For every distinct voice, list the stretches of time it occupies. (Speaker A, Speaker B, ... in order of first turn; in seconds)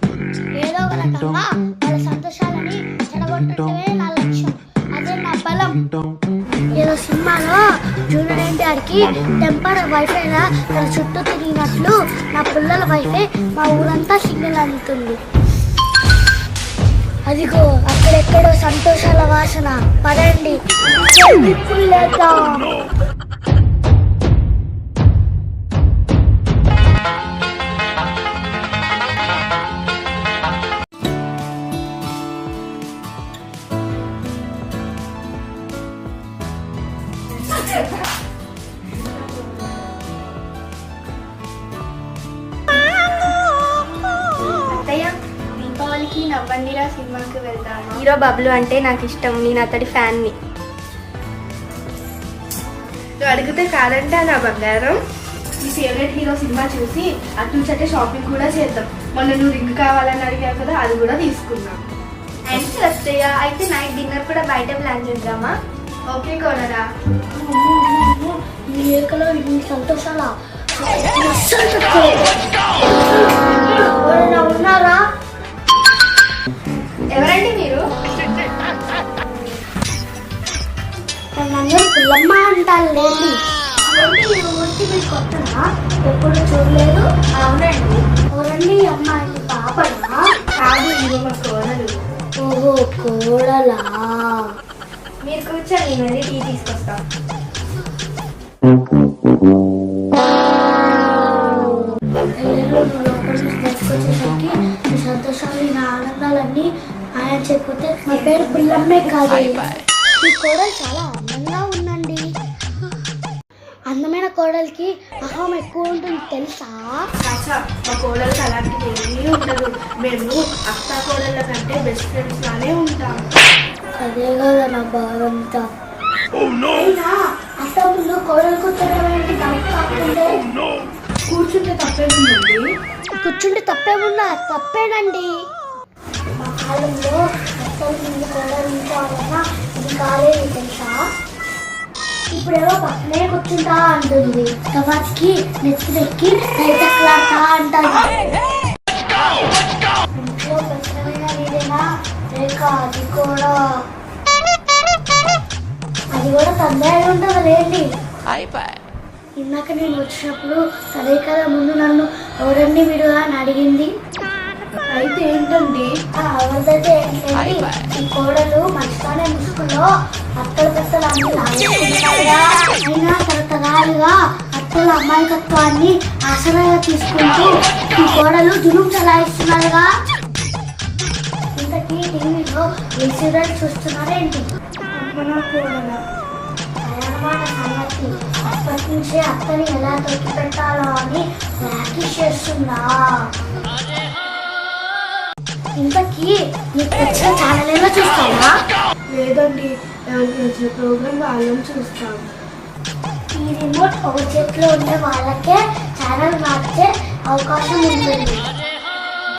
Speaker A: 0.6-5.8, 6.8-15.2, 17.3-22.6, 67.4-72.3, 72.9-75.0, 81.4-83.3, 83.9-87.0, 88.4-90.1, 92.5-94.5, 102.4-109.7, 110.2-112.2, 113.9-117.1, 124.0-125.7, 126.7-130.4, 133.2-135.3, 136.4-141.0, 142.3-148.2, 150.2-151.8, 152.3-153.6, 156.1-157.8, 159.4-163.9, 166.2-169.9, 170.4-179.9, 181.6-184.5, 186.8-193.2, 195.8-198.6, 203.4-208.4
Speaker B: 44.7-50.3, 62.5-65.5, 77.1-77.8, 87.5-88.0, 95.2-97.0
Speaker C: 53.2-55.0, 55.6-61.8, 66.1-66.8, 90.6-91.9, 117.2-123.3, 131.3-132.6, 164.9-165.9, 185.0-186.0, 199.1-202.3